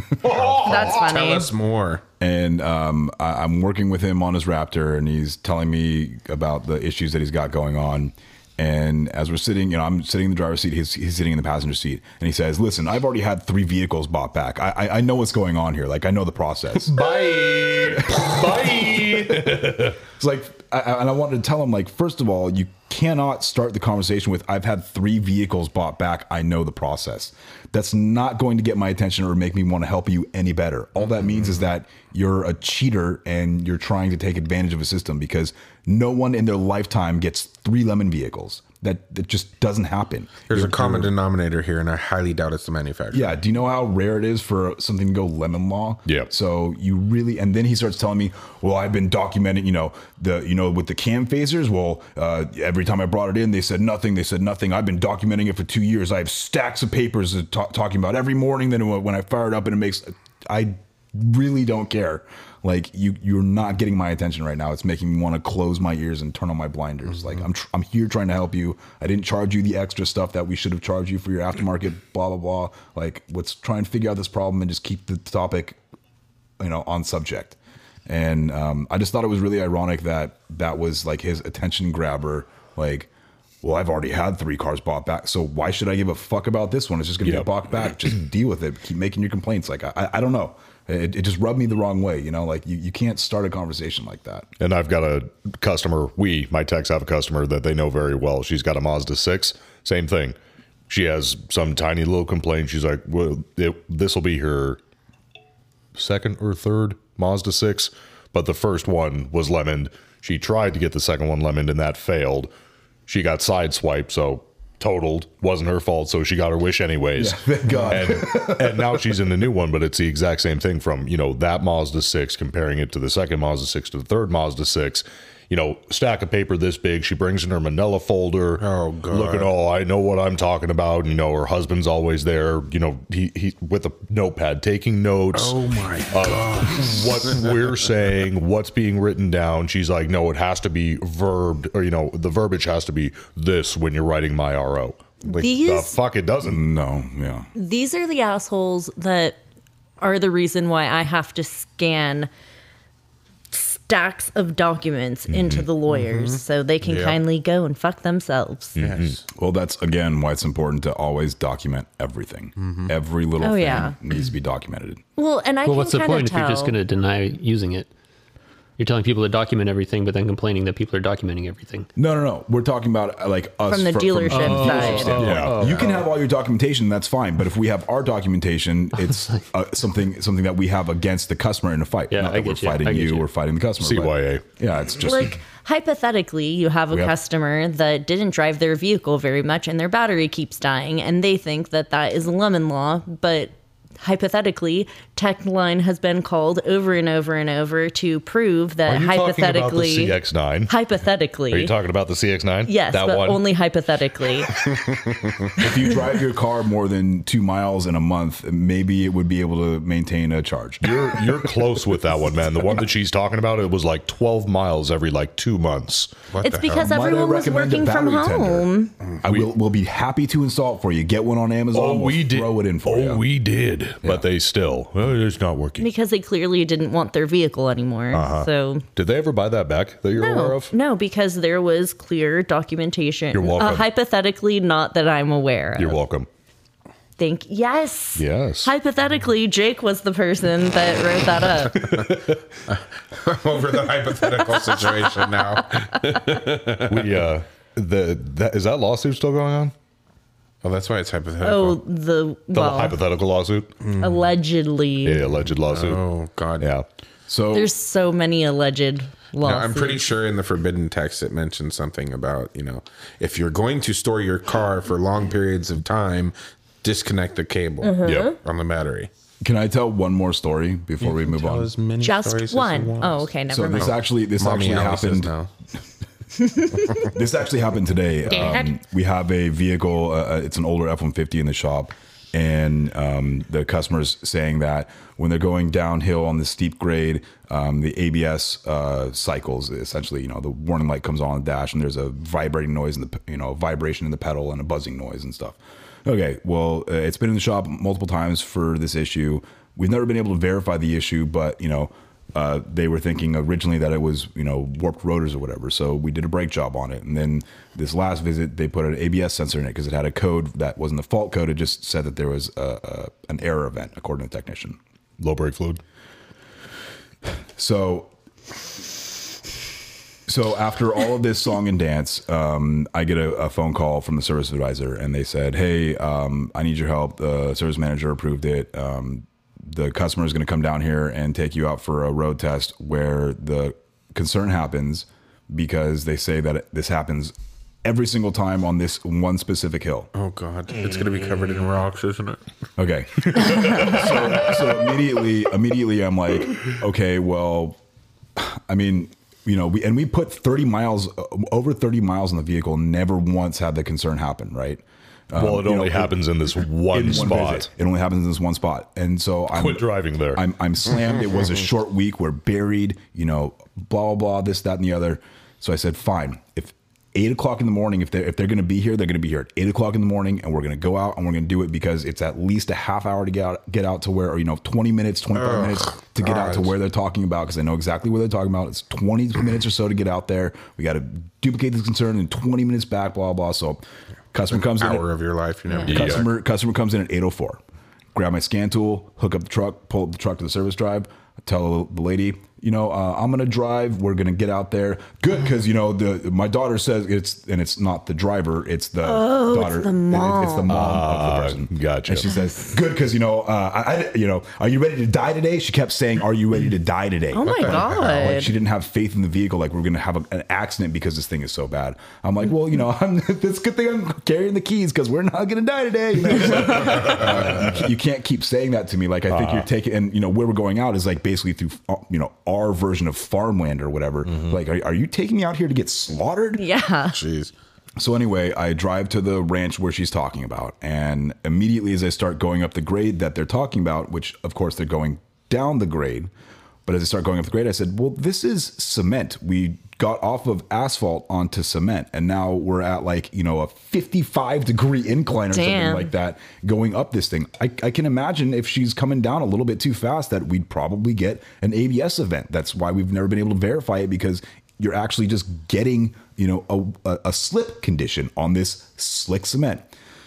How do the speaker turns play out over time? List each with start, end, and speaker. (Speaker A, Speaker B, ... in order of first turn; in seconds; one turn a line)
Speaker A: 0.2-1.1
Speaker B: 0.3-2.0
Speaker C: 0.6-1.5
Speaker D: 2.2-17.1
Speaker A: 16.9-20.0
Speaker D: 17.6-41.1
Speaker B: 31.2-31.5
Speaker B: 40.5-43.4
Speaker D: 43.1-75.8
Speaker B: 67.2-67.4
Speaker D: 76.6-83.1
Speaker D: 83.6-94.5
Speaker A: 94.6-100.3
Speaker A: 100.9-104.8
Speaker A: 105.9-112.5
Speaker A: 113.1-135.6
Speaker D: 117.2-119.0
Speaker B: 128.6-129.5
Speaker B: 135.3-137.6
Speaker A: 136.1-146.6
Speaker C: 145.2-146.0
Speaker D: 146.4-147.5
Speaker C: 147.5-149.4
Speaker C: 150.0-152.3
Speaker C: 153.5-158.8
Speaker A: 155.3-155.7
Speaker B: 155.9-157.2
Speaker A: 158.8-159.2
Speaker B: 158.8-159.2
Speaker D: 159.3-165.0
Speaker B: 162.6-162.9
Speaker C: 163.4-163.9
Speaker C: 165.2-166.7
Speaker E: 165.6-167.9
Speaker E: 168.8-171.9
Speaker D: 171.9-185.4
Speaker C: 173.7-175.3
Speaker E: 174.3-176.0
Speaker A: 174.7-175.8
Speaker E: 182.1-183.3
Speaker A: 183.8-184.4
Speaker C: 185.0-201.8
Speaker A: 198.8-200.7
Speaker A: 201.5-203.4
Speaker C: 202.6-204.6
Speaker B: 204.9-205.3
Speaker D: 205.6-211.1
Speaker A: 210.8-216.1
Speaker B: 216.3-216.9
Speaker C: 216.4-218.9
Speaker D: 216.7-218.7
Speaker D: 219.2-223.2
Speaker A: 221.7-225.9
Speaker C: 225.8-228.8
Speaker A: 228.1-230.7
Speaker C: 230.1-236.0
Speaker A: 233.3-233.9
Speaker A: 235.8-236.3
Speaker C: 237.2-241.8
Speaker A: 238.2-238.7
Speaker A: 241.8-242.2
Speaker B: 242.7-247.2
Speaker A: 246.8-249.7
Speaker B: 250.6-251.8
Speaker C: 251.4-253.0
Speaker A: 252.5-253.7
Speaker B: 253.8-254.3
Speaker C: 254.0-255.3
Speaker A: 255.0-256.1
Speaker B: 255.5-256.7
Speaker A: 256.6-256.9
Speaker D: 257.3-257.7
Speaker C: 257.5-260.1
Speaker B: 259.4-269.1
Speaker C: 267.8-268.3
Speaker A: 268.0-268.3
Speaker D: 269.4-271.7
Speaker B: 271.0-275.5
Speaker C: 272.0-274.0
Speaker D: 273.5-275.3
Speaker D: 277.0-314.8
Speaker C: 278.3-278.7
Speaker A: 315.2-315.8
Speaker D: 317.6-318.1
Speaker D: 320.3-340.1
Speaker B: 340.1-342.4
Speaker D: 342.8-347.8
Speaker A: 343.4-344.0
Speaker D: 348.4-356.1
Speaker A: 355.3-357.7
Speaker D: 356.9-385.1
Speaker A: 359.5-360.4
Speaker B: 375.3-376.7
Speaker B: 384.5-386.3
Speaker A: 385.9-386.2
Speaker D: 385.9-387.6
Speaker D: 388.1-426.6
Speaker C: 399.0-400.7
Speaker A: 400.7-402.3
Speaker C: 402.3-402.6
Speaker C: 407.3-408.5
Speaker B: 407.4-408.3
Speaker B: 417.1-417.5
Speaker A: 419.3-419.7
Speaker C: 426.6-427.2
Speaker B: 427.1-427.5
Speaker D: 428.0-436.3
Speaker D: 436.9-459.8
Speaker C: 445.5-446.1